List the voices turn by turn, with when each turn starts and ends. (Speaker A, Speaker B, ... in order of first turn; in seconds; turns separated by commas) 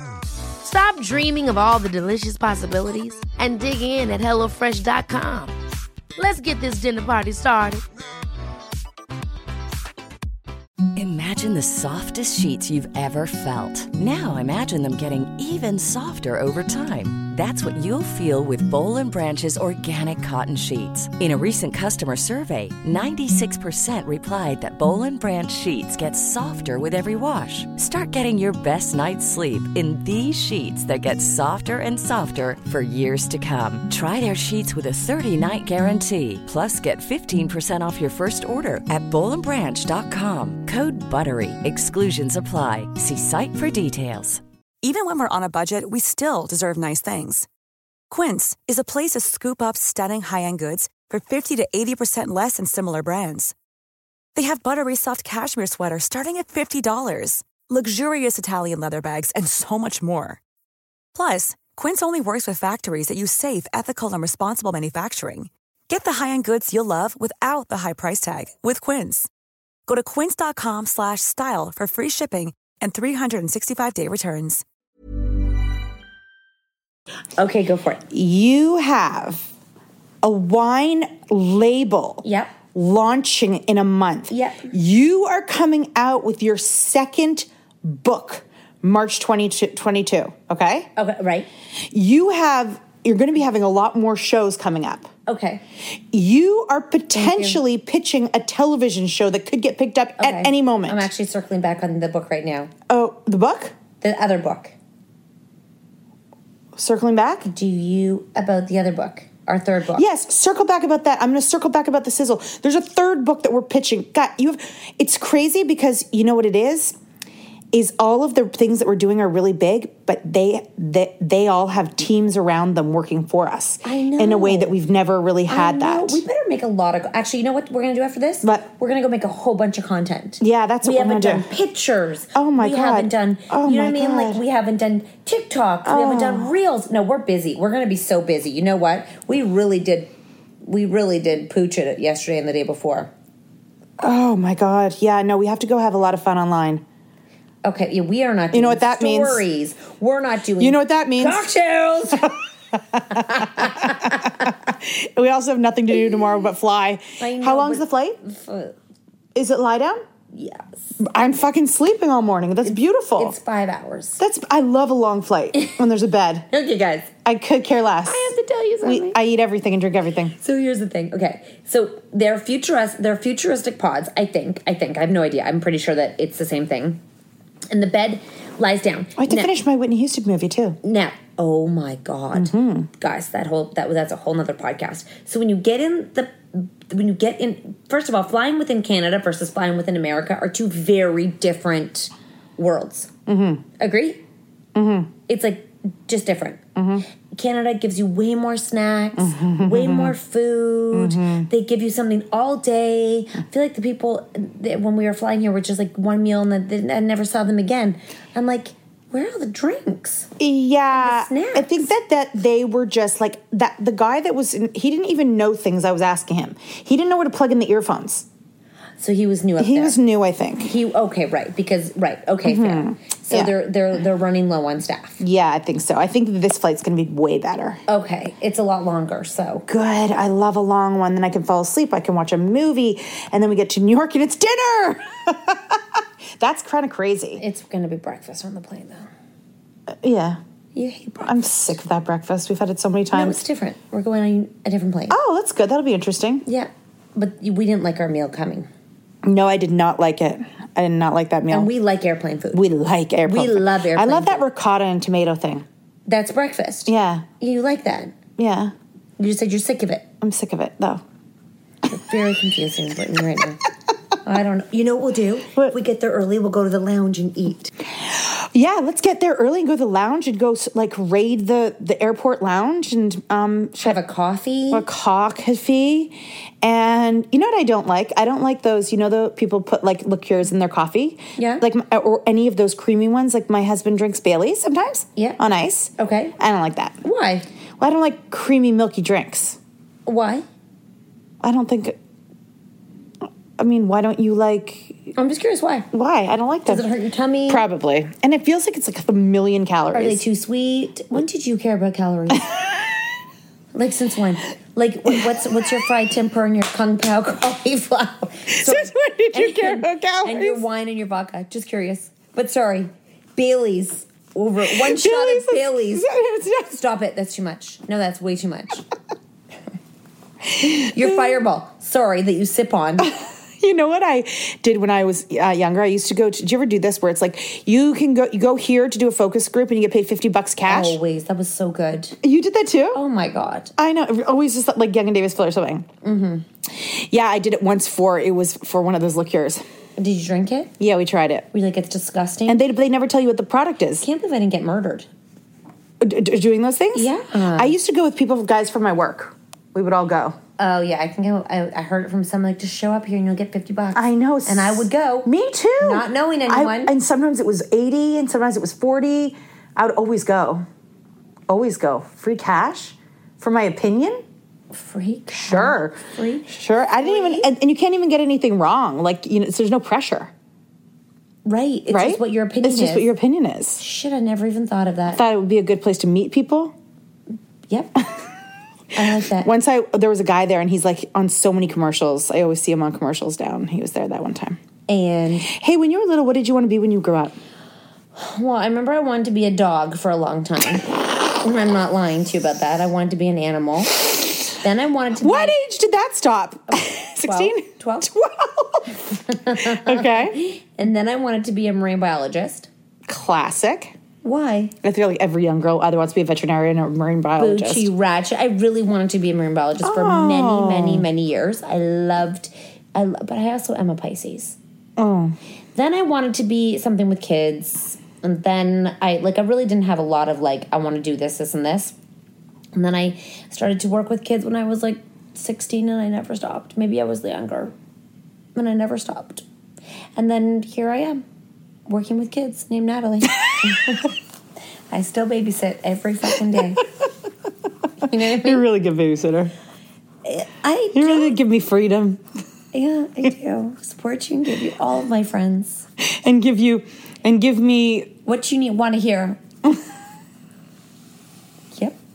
Speaker A: 0.6-5.5, Speaker A: 6.2-7.8, Speaker B: 10.9-44.4, Speaker C: 44.8-47.5, Speaker C: 48.1-53.5, Speaker C: 54.3-60.4, Speaker C: 61.1-69.3, Speaker C: 69.9-74.6, Speaker D: 77.4-78.0, Speaker E: 78.1-79.5, Speaker E: 80.2-82.2, Speaker D: 82.2-82.5, Speaker E: 82.7-90.9, Speaker D: 84.3-84.7, Speaker D: 91.0-91.5, Speaker E: 91.9-95.1, Speaker D: 95.2-95.6, Speaker E: 96.1-101.1, Speaker D: 97.1-97.6, Speaker D: 100.2-102.7, Speaker E: 102.9-103.7, Speaker D: 104.0-104.7, Speaker E: 106.8-107.5, Speaker D: 107.5-110.0, Speaker E: 110.0-117.0, Speaker E: 117.7-126.2, Speaker D: 123.8-124.8, Speaker D: 125.5-140.1, Speaker E: 128.4-128.7, Speaker E: 130.4-131.5, Speaker E: 132.3-134.4, Speaker E: 135.8-136.5, Speaker D: 140.6-143.1, Speaker E: 144.0-146.8, Speaker D: 147.6-152.3, Speaker E: 148.5-149.4, Speaker E: 150.6-151.5, Speaker E: 152.9-158.2, Speaker D: 153.1-154.3, Speaker D: 156.1-156.4, Speaker D: 157.2-158.7, Speaker E: 159.3-160.0, Speaker D: 160.3-161.0, Speaker E: 161.0-163.3, Speaker D: 162.6-164.2, Speaker E: 164.2-166.5, Speaker D: 166.5-167.1, Speaker E: 167.2-170.3, Speaker D: 168.1-169.2, Speaker D: 170.4-177.0, Speaker D: 177.7-179.5, Speaker E: 179.2-180.8, Speaker D: 180.8-193.1, Speaker E: 182.3-182.9, Speaker E: 193.3-193.6, Speaker D: 193.8-194.2, Speaker E: 194.7-195.1, Speaker D: 195.3-196.6, Speaker E: 196.8-197.0, Speaker D: 197.3-210.3, Speaker E: 199.2-200.1, Speaker E: 200.9-201.5, Speaker E: 210.4-218.2, Speaker D: 210.9-211.8, Speaker D: 219.0-220.0, Speaker E: 219.6-220.7, Speaker D: 220.6-225.2, Speaker E: 222.4-223.5, Speaker E: 225.2-227.8, Speaker D: 227.9-229.6, Speaker E: 229.7-237.4, Speaker D: 237.4-239.1, Speaker E: 239.9-240.4, Speaker D: 240.7-241.4, Speaker E: 241.2-243.4, Speaker D: 243.1-245.2, Speaker E: 245.1-246.4, Speaker D: 246.4-248.7, Speaker E: 249.2-251.7, Speaker D: 251.5-252.6, Speaker E: 252.5-255.6, Speaker D: 253.2-254.4, Speaker D: 256.1-258.1, Speaker E: 256.9-257.3, Speaker E: 258.4-258.7, Speaker D: 259.2-260.1, Speaker E: 260.2-261.0, Speaker D: 261.9-263.6, Speaker D: 264.2-267.7, Speaker E: 267.9-274.0, Speaker D: 273.8-274.9, Speaker E: 274.7-287.0, Speaker D: 281.4-281.6, Speaker D: 286.0-286.3, Speaker D: 287.0-287.4, Speaker E: 287.8-289.6, Speaker D: 290.1-290.4, Speaker E: 291.4-292.0, Speaker E: 293.6-295.1, Speaker D: 295.1-295.9, Speaker E: 295.9-296.9, Speaker D: 296.6-297.6, Speaker E: 297.5-300.2, Speaker D: 299.9-302.4, Speaker D: 303.7-316.1, Speaker E: 308.5-310.6, Speaker E: 314.6-316.7, Speaker D: 316.6-318.8, Speaker D: 320.6-323.1, Speaker E: 320.7-321.3, Speaker E: 323.0-331.0, Speaker D: 330.7-332.2, Speaker E: 332.2-333.0, Speaker D: 332.9-333.7, Speaker E: 333.8-335.9, Speaker D: 336.0-336.4, Speaker E: 336.7-339.6, Speaker D: 340.0-340.7, Speaker E: 340.8-341.4, Speaker D: 341.5-342.6, Speaker E: 342.5-344.0, Speaker D: 344.0-345.1, Speaker E: 346.0-350.4, Speaker D: 346.9-347.7, Speaker D: 350.6-355.3, Speaker E: 353.9-360.6, Speaker D: 355.8-356.9, Speaker E: 361.5-364.2, Speaker D: 364.7-367.5, Speaker E: 365.3-370.3, Speaker D: 371.4-373.1, Speaker E: 371.9-373.8, Speaker D: 373.8-375.2, Speaker E: 375.1-376.7, Speaker D: 377.7-378.0, Speaker D: 378.9-379.5, Speaker E: 379.3-384.6, Speaker D: 384.9-385.5, Speaker E: 385.4-387.3, Speaker D: 388.1-395.5, Speaker E: 395.2-399.0, Speaker D: 396.7-398.1, Speaker D: 399.2-402.7, Speaker E: 399.5-400.4, Speaker E: 403.1-403.9, Speaker D: 404.2-404.7, Speaker E: 404.8-407.9, Speaker D: 407.4-414.6, Speaker E: 409.8-411.1, Speaker E: 415.0-415.4, Speaker D: 415.7-421.9, Speaker D: 422.7-427.7, Speaker D: 428.5-429.4, Speaker D: 430.2-431.2, Speaker D: 431.9-434.1, Speaker D: 434.9-436.8, Speaker D: 438.0-438.6, Speaker E: 438.1-439.5, Speaker D: 440.2-441.4, Speaker E: 440.9-442.2, Speaker D: 442.7-445.9, Speaker E: 446.0-448.1, Speaker D: 448.2-449.4